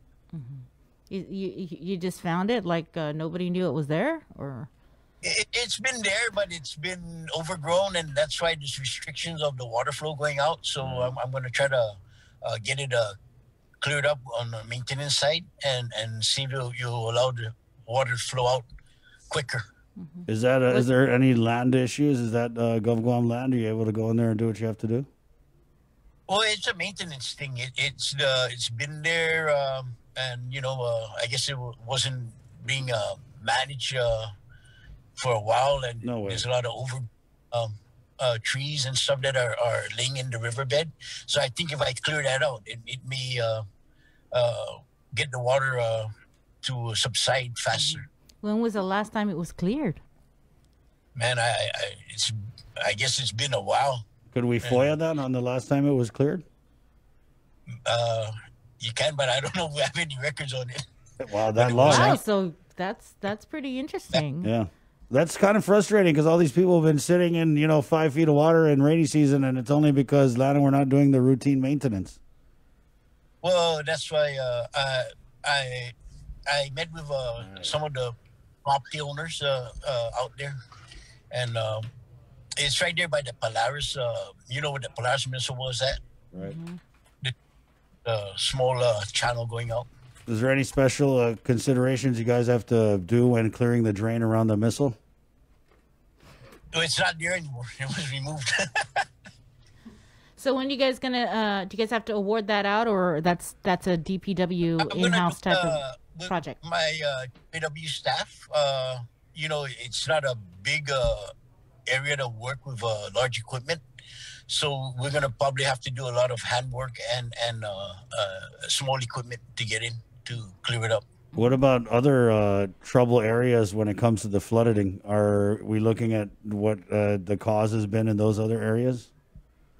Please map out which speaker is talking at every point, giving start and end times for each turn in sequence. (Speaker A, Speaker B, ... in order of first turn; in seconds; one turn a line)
Speaker A: 0.3-4.7
Speaker B: 5.2-13.1
Speaker C: 10.8-11.1
Speaker B: 13.8-18.7
Speaker B: 19.3-19.6
Speaker A: 20.0-20.9
Speaker C: 20.3-25.1
Speaker B: 26.3-34.3
Speaker B: 35.1-43.6
Speaker C: 36.0-36.4
Speaker B: 44.3-46.1
Speaker B: 46.6-48.1
Speaker A: 47.7-50.0
Speaker B: 51.1-54.0
Speaker C: 54.3-56.4
Speaker B: 54.6-54.9
Speaker B: 57.9-60.8
Speaker C: 61.2-62.2
Speaker B: 61.5-62.2
Speaker A: 61.9-64.5
Speaker C: 64.4-72.2
Speaker B: 73.4-75.9
Speaker B: 76.5-80.5
Speaker C: 77.4-77.7
Speaker B: 81.3-81.9
Speaker B: 82.6-86.0
Speaker A: 86.4-86.8
Speaker B: 88.0-89.9
Speaker C: 90.3-95.0
Speaker B: 96.7-99.0
Speaker A: 100.4-106.5
Speaker B: 104.8-111.3
Speaker B: 111.9-113.8
Speaker B: 114.5-121.0
Speaker C: 121.4-129.1